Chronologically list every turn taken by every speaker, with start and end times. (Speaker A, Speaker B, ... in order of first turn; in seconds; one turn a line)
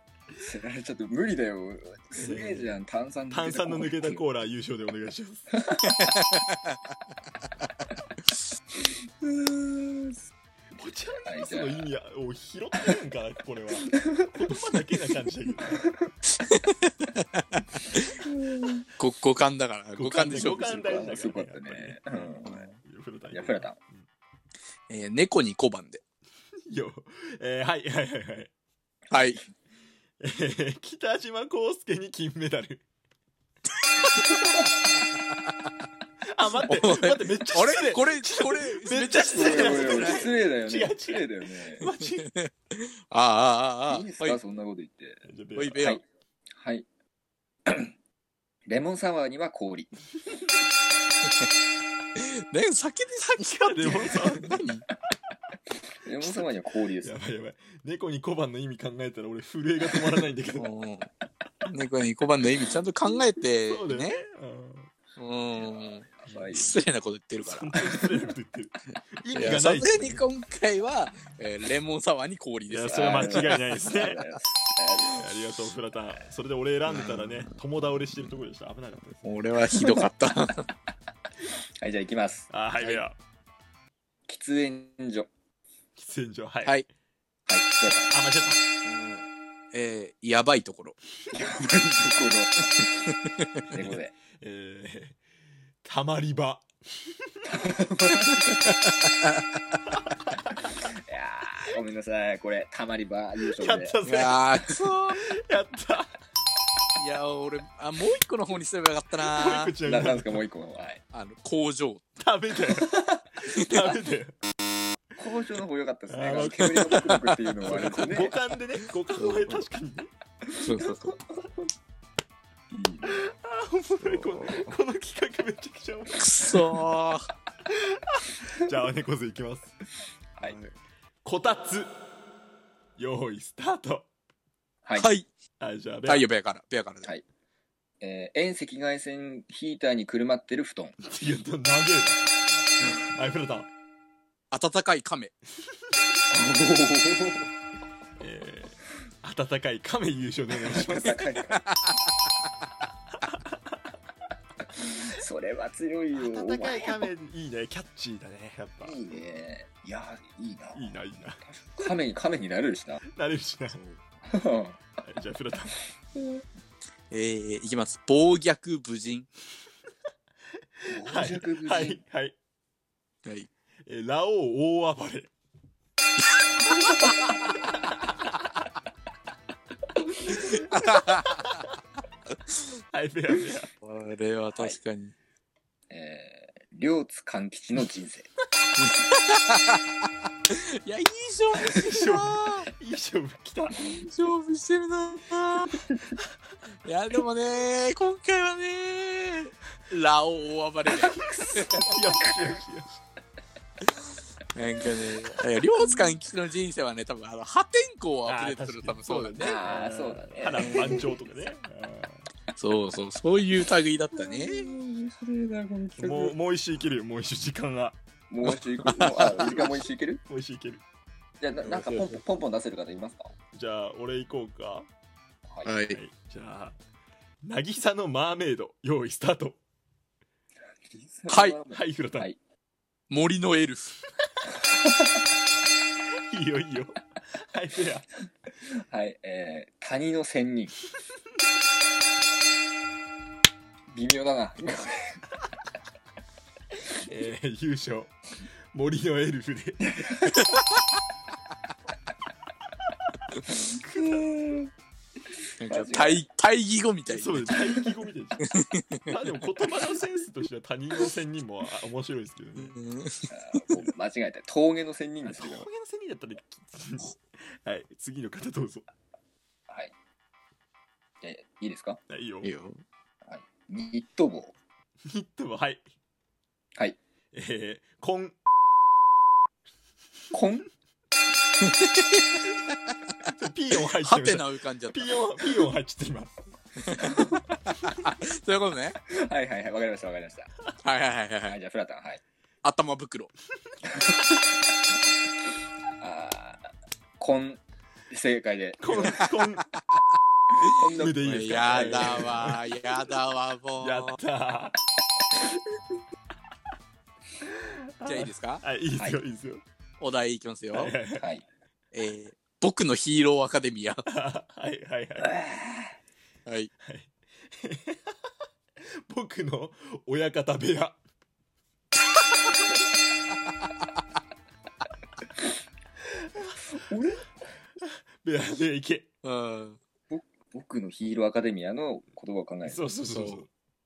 Speaker A: 0.3-4.2
Speaker B: 2.1-2.7
Speaker B: 3.3-5.5
Speaker A: 5.5-6.0
Speaker A: 9.2-10.2
Speaker B: 10.8-15.9
Speaker A: 11.2-11.9
Speaker A: 13.9-14.3
Speaker C: 16.4-18.1
Speaker A: 18.4-18.8
Speaker C: 19.0-20.6
Speaker B: 19.9-24.1
Speaker A: 20.4-22.7
Speaker C: 22.5-22.7
Speaker A: 23.3-23.8
Speaker C: 24.9-26.0
Speaker B: 26.7-28.5
Speaker C: 29.1-29.4
Speaker B: 30.2-32.8
Speaker B: 34.2-34.7
Speaker B: 36.2-42.3
Speaker C: 36.6-40.3
Speaker A: 39.2-41.9
Speaker C: 42.4-44.4
Speaker A: 43.9-45.2
Speaker B: 45.2-45.9
Speaker C: 45.5-46.0
Speaker A: 46.5-46.9
Speaker A: 47.6-47.9
Speaker A: 48.7-49.9
Speaker C: 52.1-54.8
Speaker B: 53.4-54.6
Speaker A: 56.0-57.2
Speaker B: 57.0-60.7
Speaker C: 60.6-61.1
Speaker C: 61.7-64.2
Speaker B: 63.7-64.9
Speaker C: 65.2-68.0
Speaker A: 65.5-66.8
Speaker B: 66.3-66.6
Speaker B: 67.4-70.2
Speaker C: 69.3-73.6
Speaker B: 72.7-74.2
Speaker A: 72.9-75.2
Speaker B: 75.1-79.4
Speaker C: 76.9-77.5
Speaker C: 79.2-80.7
Speaker A: 81.8-82.5
Speaker B: 82.5-83.2
Speaker A: 84.3-85.3
Speaker B: 86.0-86.8
Speaker A: 87.5-88.1
Speaker B: 88.1-88.6
Speaker C: 88.8-91.0
Speaker A: 91.3-92.9
Speaker C: 93.4-93.8
Speaker A: 93.7-94.1
Speaker B: 93.7-95.2
Speaker B: 95.8-97.5
Speaker A: 97.5-98.7
Speaker B: 100.0-100.3
Speaker A: 101.1-104.0
Speaker B: 103.5-106.1
Speaker C: 104.0-105.2
Speaker C: 107.0-109.7
Speaker B: 109.2-110.4
Speaker A: 109.8-111.0
Speaker C: 111.1-112.2
Speaker B: 112.2-114.3
Speaker C: 113.5-114.0
Speaker A: 115.2-118.3
Speaker B: 116.1-120.1
Speaker C: 116.4-118.0
Speaker C: 119.2-119.6
Speaker C: 120.6-121.1
Speaker A: 120.7-121.5
Speaker A: 122.7-123.3
Speaker B: 123.0-126.8
Speaker C: 124.0-124.7
Speaker C: 126.2-127.3
Speaker B: 127.7-129.7
Speaker C: 130.4-130.7
Speaker B: 131.2-131.9
Speaker B: 133.0-134.1
Speaker C: 134.9-135.3
Speaker B: 135.6-136.3
Speaker C: 136.1-137.1
Speaker A: 138.0-140.9
Speaker B: 141.0-142.2
Speaker B: 143.1-143.7
Speaker C: 144.5-145.3
Speaker A: 146.3-147.5
Speaker B: 148.2-151.2
Speaker A: 150.6-151.7
Speaker C: 151.5-151.9
Speaker A: 154.8-157.1
Speaker B: 156.1-159.0
Speaker A: 158.8-163.0
Speaker B: 160.7-161.4
Speaker B: 163.1-163.8
Speaker A: 164.3-164.8
Speaker B: 165.0-165.8
Speaker C: 167.1-169.3
Speaker B: 170.8-172.3
Speaker A: 170.9-172.0
Speaker B: 173.8-175.3
Speaker A: 176.8-177.2
Speaker C: 180.3-181.5
Speaker B: 182.9-183.7
Speaker C: 183.8-185.1
Speaker A: 184.5-184.8
Speaker A: 185.9-188.3
Speaker C: 188.8-189.8
Speaker C: 190.5-192.7
Speaker B: 191.6-193.8
Speaker C: 193.8-195.7
Speaker C: 196.8-201.9
Speaker A: 201.1-201.9
Speaker B: 201.2-203.0
Speaker C: 204.5-209.6
Speaker B: 208.2-212.3
Speaker A: 209.4-211.1
Speaker C: 210.6-210.9
Speaker C: 212.5-214.6
Speaker A: 214.1-216.3
Speaker B: 216.0-218.0
Speaker A: 218.3-220.2
Speaker C: 218.4-219.6
Speaker B: 219.1-220.8
Speaker A: 221.4-223.3
Speaker C: 221.6-222.2
Speaker B: 223.5-224.9
Speaker C: 225.6-226.0
Speaker B: 225.9-226.8
Speaker B: 227.4-229.6
Speaker A: 230.9-232.3
Speaker C: 231.3-231.6
Speaker B: 231.7-232.3
Speaker C: 233.1-234.0
Speaker B: 236.3-238.1
Speaker A: 238.8-240.7
Speaker A: 243.9-245.2
Speaker B: 246.9-248.1
Speaker B: 248.7-250.4
Speaker A: 253.5-254.7
Speaker B: 253.8-254.2
Speaker C: 255.6-257.8
Speaker A: 255.7-256.2
Speaker B: 257.1-258.5
Speaker C: 258.4-259.1
Speaker B: 259.1-262.8
Speaker C: 262.6-263.8
Speaker A: 263.3-265.7
Speaker B: 265.2-268.9
Speaker A: 271.2-272.0
Speaker B: 272.1-272.5
Speaker C: 272.4-272.8
Speaker A: 273.3-274.5
Speaker B: 275.1-275.9
Speaker B: 277.3-278.4
Speaker A: 280.3-280.7
Speaker C: 281.6-282.4
Speaker B: 283.2-286.4
Speaker C: 283.9-285.2
Speaker C: 286.8-289.0
Speaker A: 289.1-290.5
Speaker C: 290.8-291.6
Speaker A: 291.5-292.2
Speaker C: 292.6-293.3
Speaker A: 296.0-297.6
Speaker A: 298.1-299.3
Speaker B: 298.8-299.7
Speaker A: 300.6-302.4
Speaker B: 300.9-302.6
Speaker C: 301.2-304.2
Speaker B: 303.8-304.8
Speaker B: 308.0-309.6
Speaker C: 308.0-308.6
Speaker C: 310.0-310.9
Speaker B: 310.7-311.2
Speaker A: 311.2-311.4
Speaker C: 311.9-314.0
Speaker B: 314.1-315.4
Speaker A: 315.2-315.9
Speaker B: 316.8-318.1
Speaker B: 319.1-321.0
Speaker A: 326.7-327.2
Speaker B: 328.2-329.1
Speaker C: 329.2-329.8
Speaker A: 330.1-332.8
Speaker B: 332.6-333.5
Speaker C: 333.1-333.4